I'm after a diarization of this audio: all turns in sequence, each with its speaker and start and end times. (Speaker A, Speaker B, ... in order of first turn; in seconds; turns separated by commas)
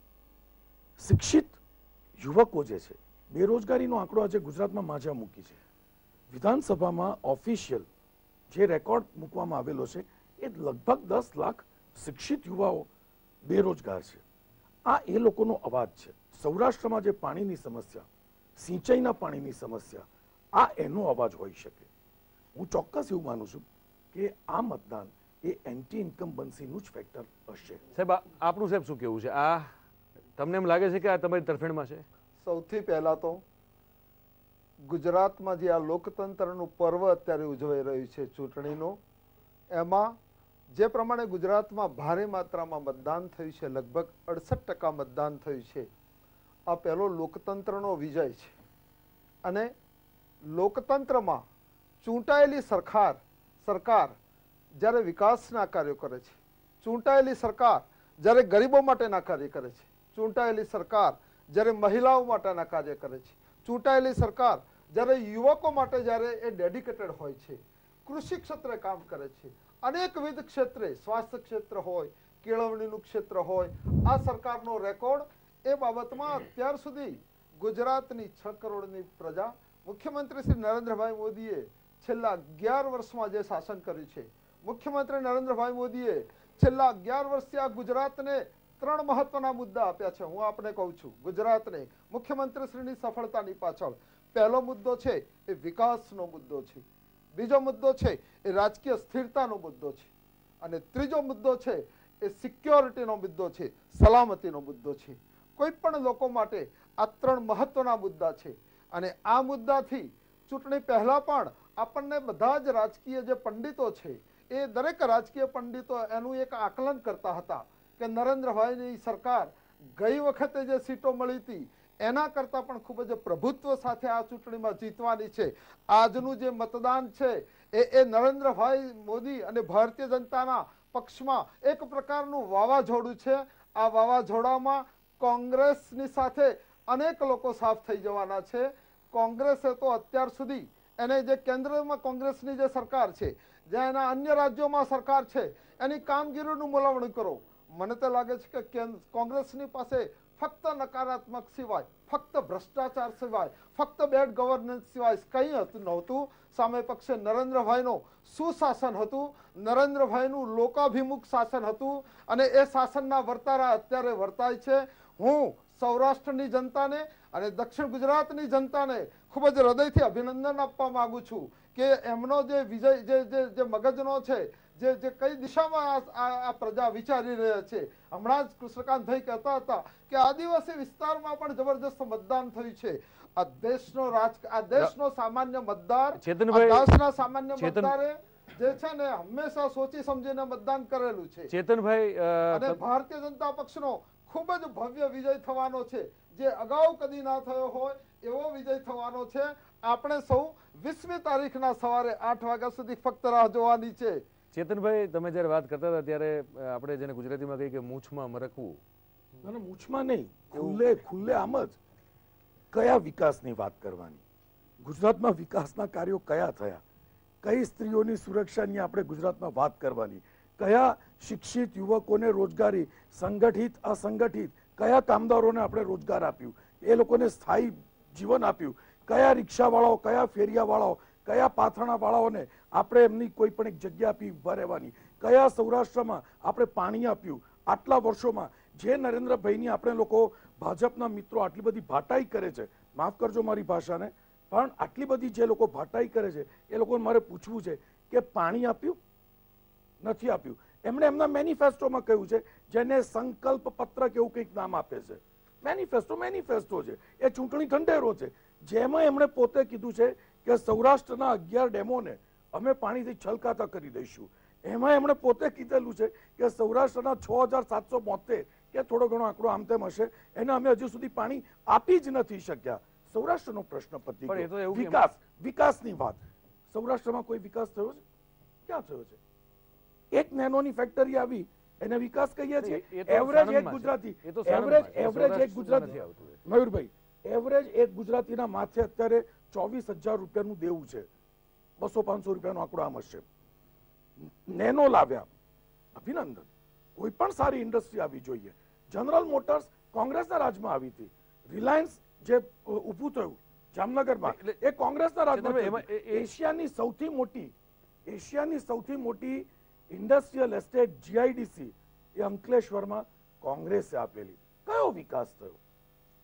Speaker A: 1.0-1.6, Speaker A: 2.2-5.6, Speaker A: 6.3-7.9, Speaker A: 8.5-12.9, Speaker A: 13.4-14.2, Speaker A: 14.9-18.1, Speaker A: 18.6-21.9, Speaker A: 22.5-27.8, Speaker B: 27.9-29.7, Speaker B: 30.4-32.0, Speaker C: 32.4-33.4, Speaker C: 34.9-39.0, Speaker C: 39.7-40.1, Speaker C: 40.7-45.9, Speaker C: 46.7-48.5, Speaker C: 49.4-49.7, Speaker C: 50.5-51.4, Speaker C: 52.0-54.1, Speaker C: 54.8-96.8, Speaker C: 97.3-100.1, Speaker C: 100.6-191.5, Speaker B: 186.2-186.8, Speaker B: 187.6-187.9, Speaker B: 191.5-192.8, Speaker C: 192.5-204.2, Speaker B: 204.5-208.8, Speaker A: 209.4-211.8, Speaker B: 210.5-210.8, Speaker A: 212.7-214.2, Speaker A: 214.8-216.8, Speaker A: 217.4-249.0, Speaker A: 250.0-278.0, Speaker B: 274.3-275.0, Speaker A: 278.6-279.2, Speaker A: 280.1-291.1, Speaker B: 282.6-286.4, Speaker A: 291.8-293.2, Speaker A: 294.2-295.3, Speaker A: 295.9-307.5, Speaker B: 304.2-304.6, Speaker B: 305.3-306.3, Speaker A: 308.1-315.6